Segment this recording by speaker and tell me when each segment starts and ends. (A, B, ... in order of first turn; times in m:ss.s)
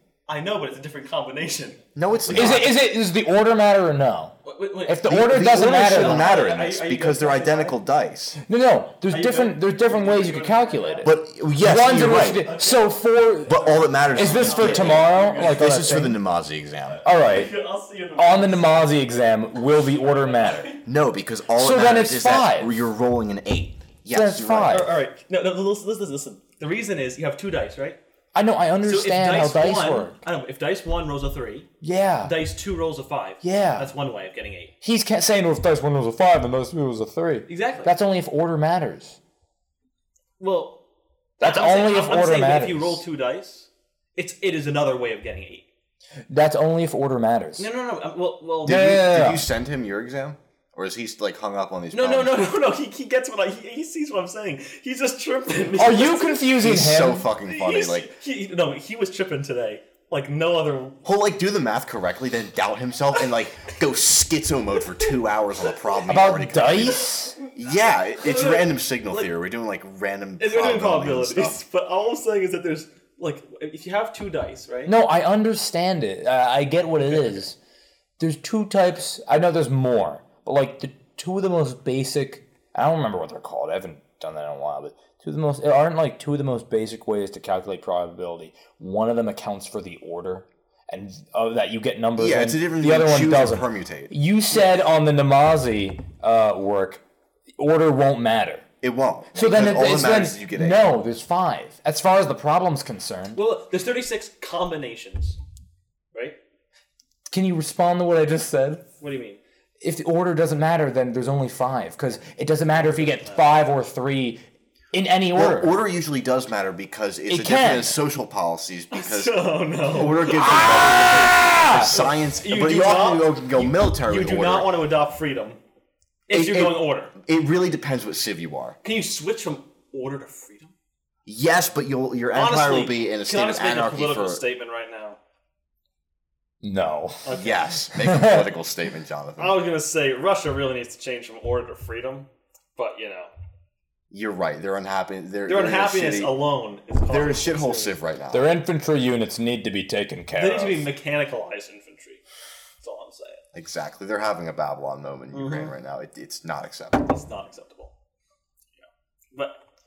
0:00.3-0:02.7 A
0:02.0-0:02.7 B
0:02.3-0:06.3 C
0:04.4-0:07.8 A
0:05.0-0:08.4 B
0:08.5-0:16.2 C
0:09.1-0:11.1 A
0:11.0-0:12.5 B
0:11.9-0:15.8 A
0:13.5-0:17.1 B
0:17.0-0:17.5 C
0:17.1-0:18.9 A
0:18.2-0:20.8 C
0:20.2-0:20.8 A
0:20.8-0:24.8 B
0:21.6-0:22.8 C
0:24.1-0:24.9 C
0:24.7-0:28.0 A
0:28.4-0:30.2 C
0:28.8-0:31.7 A
0:31.8-0:32.4 C
0:32.2-0:34.7 A
0:33.4-0:33.9 C
0:34.8-0:39.2 C
0:37.5-0:37.9 A
0:40.4-0:40.8 A
0:41.4-0:43.0 C
0:41.4-0:45.7 A
0:46.3-0:47.7 C
0:47.6-0:48.8 A
0:48.6-0:52.4 B
0:48.6-0:49.5 C
0:51.9-0:56.4 A
0:55.8-0:57.3 C
0:56.6-0:58.1 B
0:57.4-1:01.0 A
1:01.0-1:11.6 B
1:06.1-1:07.4 C
1:07.5-1:09.3 A
1:10.4-1:14.9 A
1:14.9-1:17.6 C
1:18.2-1:37.0 C
1:32.2-1:34.1 B
1:37.6-1:38.7 C
1:38.8-1:40.9 B
1:39.3-1:43.4 C
1:43.4-1:45.4 A
1:46.1-1:46.4 A
1:47.3-1:48.8 C
1:49.0-1:49.4 A
1:49.8-1:54.4 C
1:52.8-1:53.4 A
1:54.9-1:55.7 C
1:55.4-2:04.7 B
1:57.3-1:58.0 C
1:58.9-2:05.6 A
2:00.4-2:02.0 C
2:06.3-2:07.1 A
2:06.3-2:08.8 B
2:08.8-2:10.7 A
2:11.3-2:14.4 B
2:12.3-2:15.2 A
2:16.6-2:17.3 C
2:17.2-2:17.7 A
2:17.3-2:19.6 B
2:18.0-2:18.5 C
2:19.4-2:23.3 A
2:24.1-2:26.4 B
2:25.5-2:28.0 A
2:27.1-2:28.5 B
2:28.3-2:30.9 C
2:30.4-2:32.2 A
2:32.8-2:33.4 A
2:33.5-2:37.2 B
2:35.3-2:35.7 A
2:37.1-2:37.9 A
2:38.8-2:39.6 A